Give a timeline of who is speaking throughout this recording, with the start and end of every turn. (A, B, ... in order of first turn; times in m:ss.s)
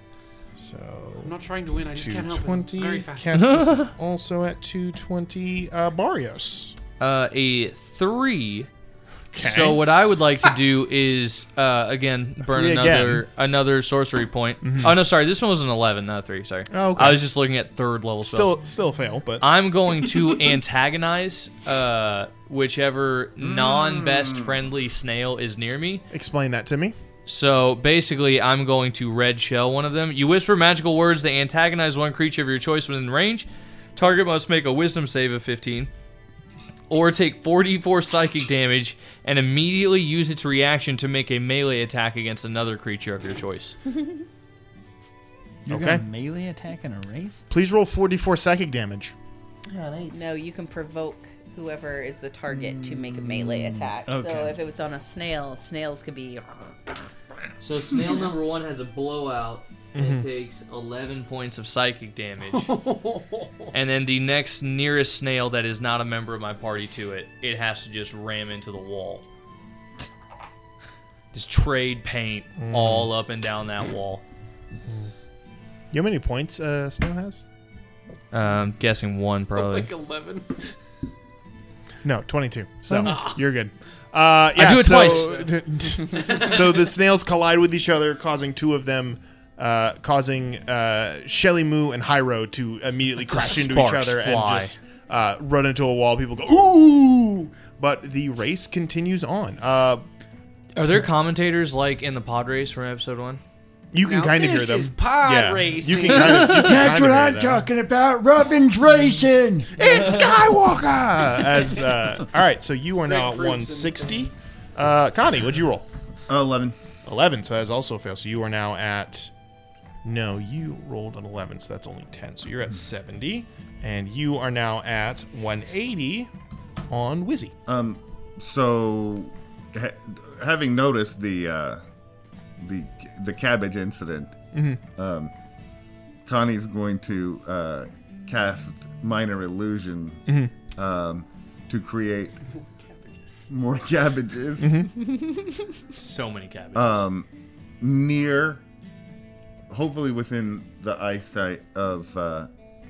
0:00.6-0:01.4 A
0:01.2-0:03.4 B
0:01.9-0:06.8 A
0:03.3-0:03.9 C
0:07.0-0:08.7 C
0:09.3-0:09.8 A
0:09.4-0:18.6 C
0:12.4-0:13.2 A
0:14.6-0:15.0 A
0:16.7-0:17.2 A
0:18.2-0:19.4 A
0:19.4-0:26.0 C
0:23.4-0:24.6 D
0:26.1-0:27.0 A
0:27.2-0:35.9 C
0:36.9-0:43.8 C
0:45.6-0:47.4 E
0:45.7-0:46.0 A
0:47.5-0:49.1 A
0:49.7-0:50.2 C
0:50.1-0:56.9 F
0:52.5-0:54.6 E
0:57.6-1:02.7 C
0:59.9-1:00.2 A
1:02.5-1:03.7 B
1:03.7-1:09.2 C
1:11.3-1:14.2 C
1:12.6-1:13.1 A
1:14.9-1:15.1 A
1:15.9-1:17.4 A
1:18.3-1:19.9 C
1:19.5-1:20.7 B
1:22.0-1:40.0 A
1:22.9-1:23.2 C
1:23.1-1:23.3 B
1:24.5-1:25.3 C
1:24.9-1:25.5 B
1:26.1-1:26.6 B
1:33.2-1:34.8 C
1:40.8-1:43.4 C
1:43.9-1:47.6 A
1:44.0-1:46.6 B
1:46.4-1:49.7 E
1:49.7-1:55.8 A
1:53.0-1:54.3 B
1:56.3-1:56.7 D
1:57.0-1:59.3 A
2:00.0-2:06.3 A
2:06.9-2:07.5 A
2:07.7-2:11.8 D
2:12.6-2:14.4 D
2:14.5-2:14.8 A
2:15.0-2:15.3 D
2:16.2-2:22.3 D
2:20.3-2:20.5 A
2:22.5-2:23.5 B
2:23.5-2:24.8 D
2:24.6-2:24.9 A
2:25.9-2:27.1 C
2:26.7-2:27.3 D
2:27.8-2:28.6 D
2:29.7-2:32.5 D